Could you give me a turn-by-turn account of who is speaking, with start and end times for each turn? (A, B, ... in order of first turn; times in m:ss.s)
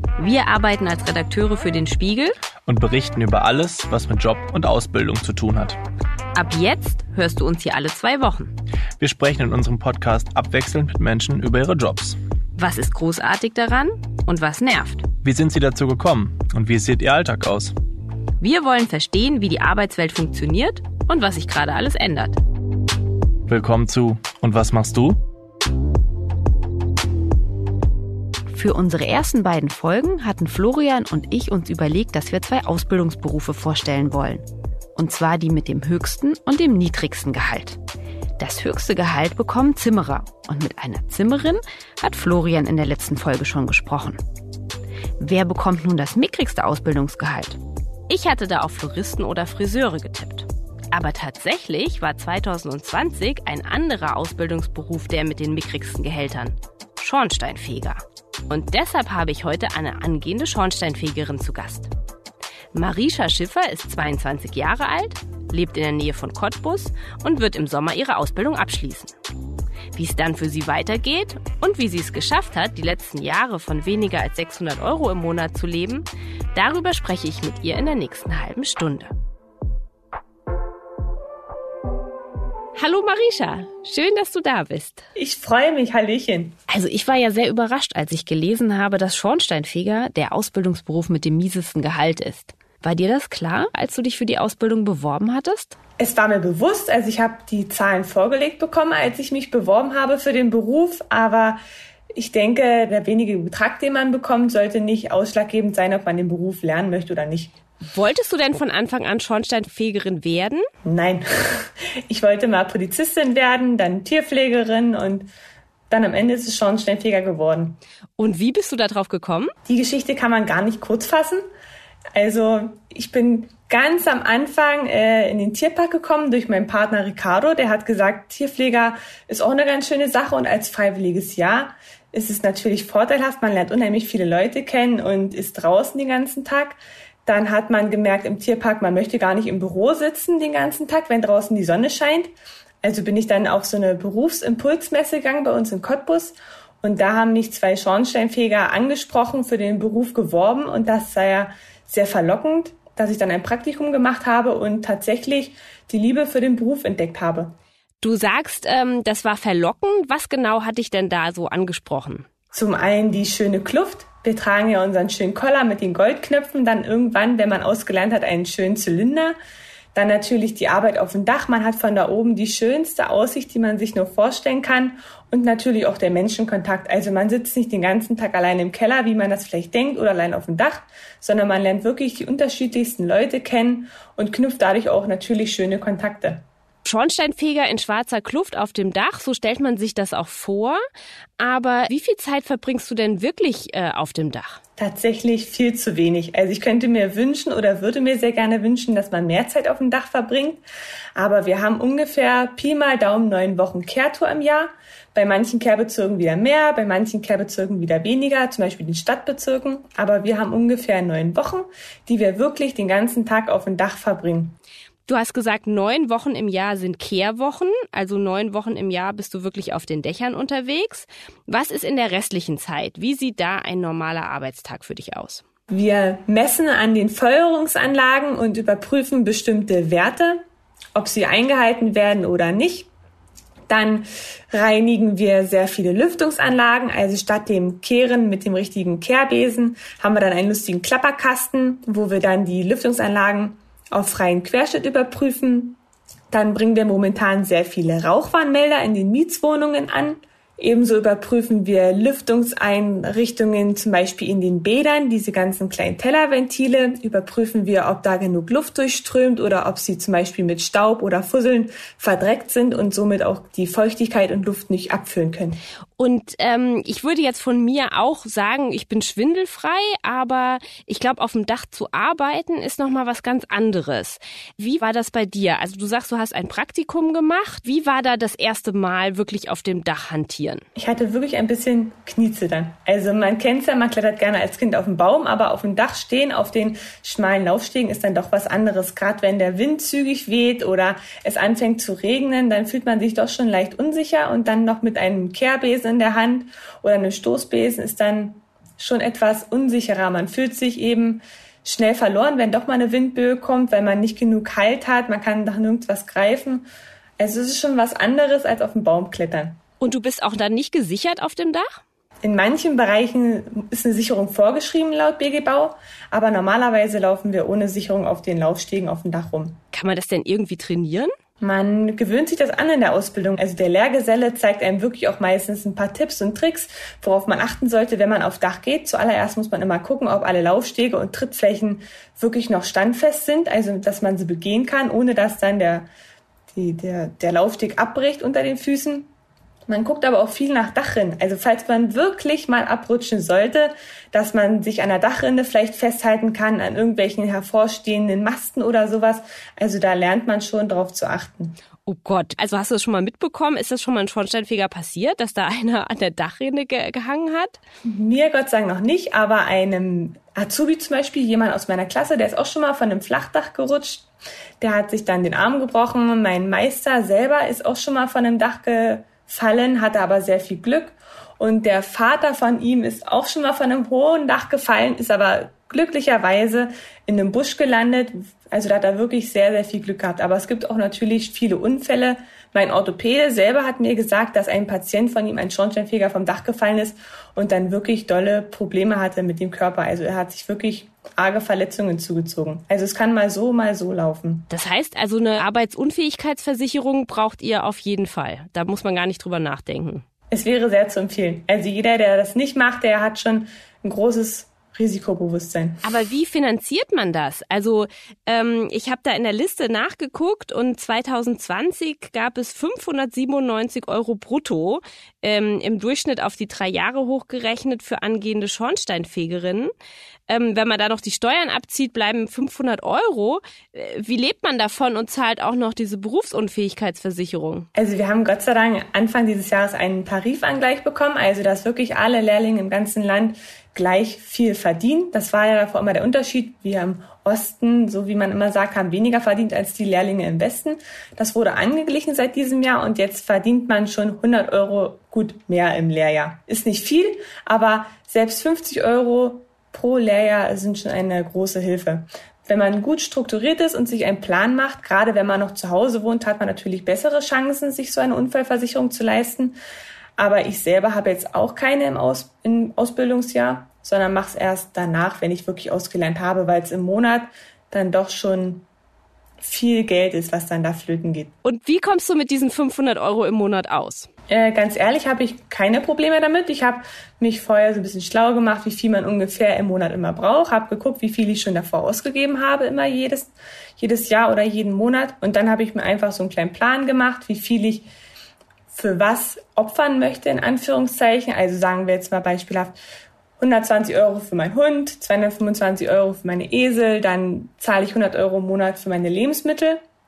0:00.2-0:02.4 A
0:02.7-0:05.8 B
0:06.3-0:08.5 A
0:09.0-0:12.2 B
0:12.6-0:15.1 A
0:15.2-0:17.7 B
0:18.4-0:22.4 A
0:23.5-0:25.2 B
0:28.5-0:34.4 A
0:35.0-0:37.8 A
0:38.4-0:44.2 A
0:45.2-1:01.9 A
1:02.7-1:09.1 A
1:09.9-1:19.1 A
1:22.8-1:25.0 A
1:25.2-1:26.6 C
1:26.7-1:35.8 A
1:36.0-1:41.6 C
1:42.2-1:47.5 C
1:47.9-1:50.7 A
1:50.8-1:55.3 C
1:55.9-1:57.8 C
1:58.2-1:59.5 A
1:59.7-2:01.4 C
2:02.2-2:22.3 C
2:22.8-2:37.5 C
2:38.0-2:42.3 A
2:42.5-2:49.3 C
2:49.9-3:06.4 C
3:06.8-3:10.8 A
3:11.4-3:14.6 A
3:14.8-3:20.6 C
3:21.2-3:34.6 C
3:35.1-3:45.4 A
3:45.7-3:50.4 C
3:51.0-3:52.9 C
3:53.7-4:05.8 C
4:06.3-4:25.6 C
4:26.0-4:40.6 A
4:40.8-5:06.7 C
5:07.2-5:09.6 C
5:09.8-5:11.8 A
5:12.2-5:19.6 C
5:19.7-5:21.1 A
5:21.4-5:35.9 C
5:36.5-5:39.1 C
5:39.7-5:51.6 C
5:51.9-5:57.6 A
5:57.8-6:04.1 C
6:04.6-6:34.5 C
6:34.5-6:40.0 A
6:40.3-6:45.8 C
6:45.8-6:59.7 A
7:00.3-7:07.7 A
7:07.8-7:39.6 C
7:40.2-7:48.7 C
7:49.4-7:51.3 C
7:51.4-7:54.1 A
7:54.3-8:07.9 C
8:08.7-8:12.8 C
8:13.4-8:19.8 C